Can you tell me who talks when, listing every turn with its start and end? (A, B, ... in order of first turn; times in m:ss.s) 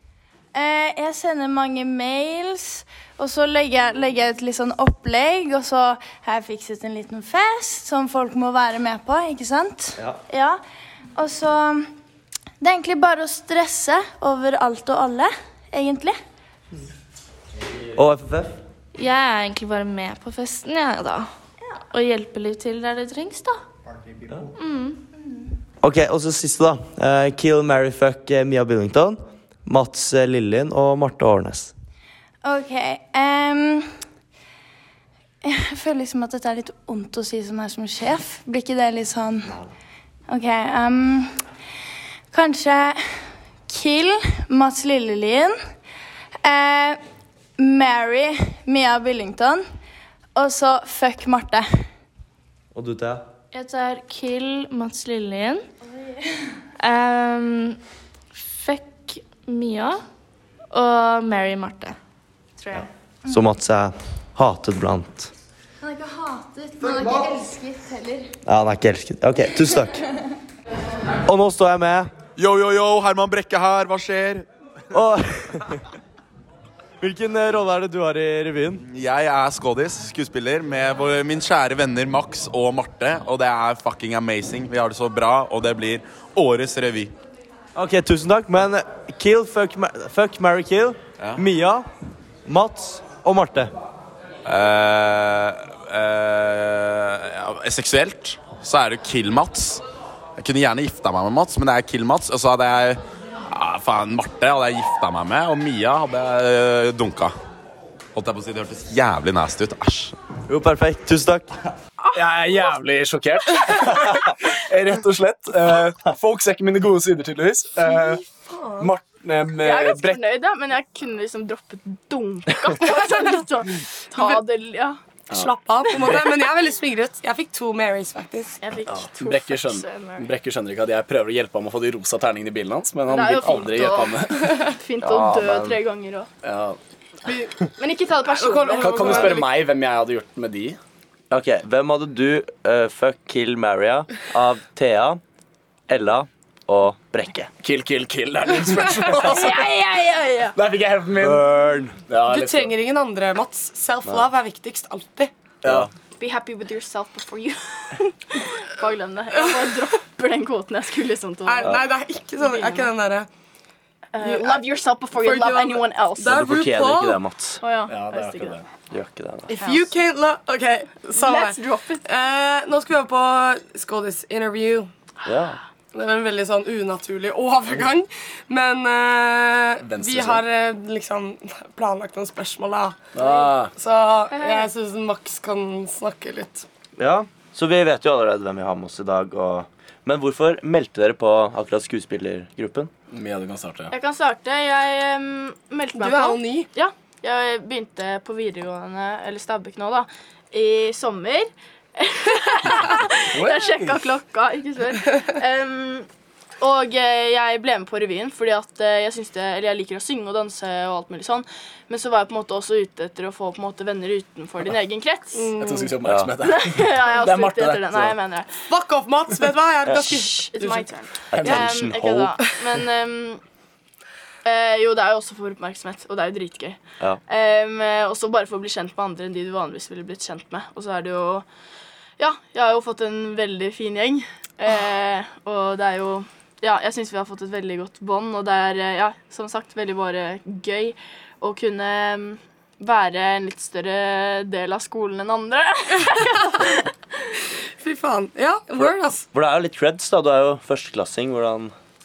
0:00.5-0:10.6 A
0:11.1-0:11.9 A
0:12.6-0:16.2 A
0:17.9-0:18.6 B
0:18.9-0:21.3 C
0:21.9-0:23.6 C
0:24.5-0:25.0 C
0:25.8-0:31.7 B
0:32.4-0:33.9 A
0:35.4-0:39.6 A
0:40.3-0:41.3 A
0:42.3-0:43.0 A
0:43.7-0:45.6 A
0:46.4-0:47.0 A
0:47.6-0:49.6 A
0:50.3-0:51.7 A
0:52.7-0:53.2 B
0:53.5-0:55.6 C
0:56.8-0:57.8 C
0:58.4-1:00.0 C
1:00.7-1:02.0 C
1:02.7-1:05.3 B
1:05.8-1:08.3 A
1:08.4-1:10.0 B
1:11.2-1:12.1 B
1:12.4-1:14.4 D
1:14.9-1:15.8 B
1:17.0-1:18.8 B
1:18.8-1:27.1 D
1:27.7-1:31.8 B
1:32.4-1:33.7 B
1:34.4-1:39.8 D
1:40.4-1:47.3 D
1:48.1-1:50.1 D
1:50.5-1:51.5 B
1:52.1-1:58.2 E
1:57.9-1:58.9 F
1:58.8-2:00.2 E
1:59.6-2:05.0 G
2:05.3-2:06.2 E
2:05.3-2:08.6 F
2:08.6-2:10.3 G
2:08.9-2:14.6 E
2:13.1-2:16.3 G
2:15.0-2:15.8 B
2:16.4-2:16.8 E
2:17.2-2:17.6 F
2:17.8-2:19.4 G
2:18.3-2:19.5 F
2:18.8-2:20.8 E
2:21.3-2:25.2 B
2:25.9-2:27.5 B
2:27.6-2:29.7 E
2:29.2-2:30.6 G
2:30.5-2:31.5 E
2:31.2-2:32.0 B
2:32.1-2:32.7 E
2:32.3-2:35.3 F
2:35.6-2:35.9 E
2:35.6-2:35.9 B
2:36.2-2:41.8 G
2:41.4-2:43.3 F
2:42.4-2:42.9 G
2:44.1-2:46.4 G
2:44.2-2:47.2 F
2:46.3-2:47.6 B
2:47.6-2:48.6 G
2:47.9-2:48.6 E
2:48.9-2:49.5 B
2:49.5-2:54.9 F
2:49.5-2:49.9 G
2:51.1-2:52.0 G
2:55.2-2:55.6 B
2:55.9-3:06.6 F
2:59.8-3:00.4 E
3:03.1-3:03.7 E
3:04.3-3:04.7 G
3:07.0-3:12.9 B
3:13.1-3:13.9 E
3:13.9-3:26.1 G
3:16.0-3:16.7 F
3:23.3-3:24.0 E
3:26.6-3:35.5 G
3:35.3-3:36.0 F
3:35.6-3:38.2 E
3:36.0-3:36.3 B
3:36.4-3:38.5 G
3:38.7-3:40.9 F
3:39.9-3:43.4 G
3:41.3-3:42.3 B
3:44.4-3:51.4 G
3:52.2-4:06.9 G
4:07.8-4:09.2 F
4:08.8-4:11.7 B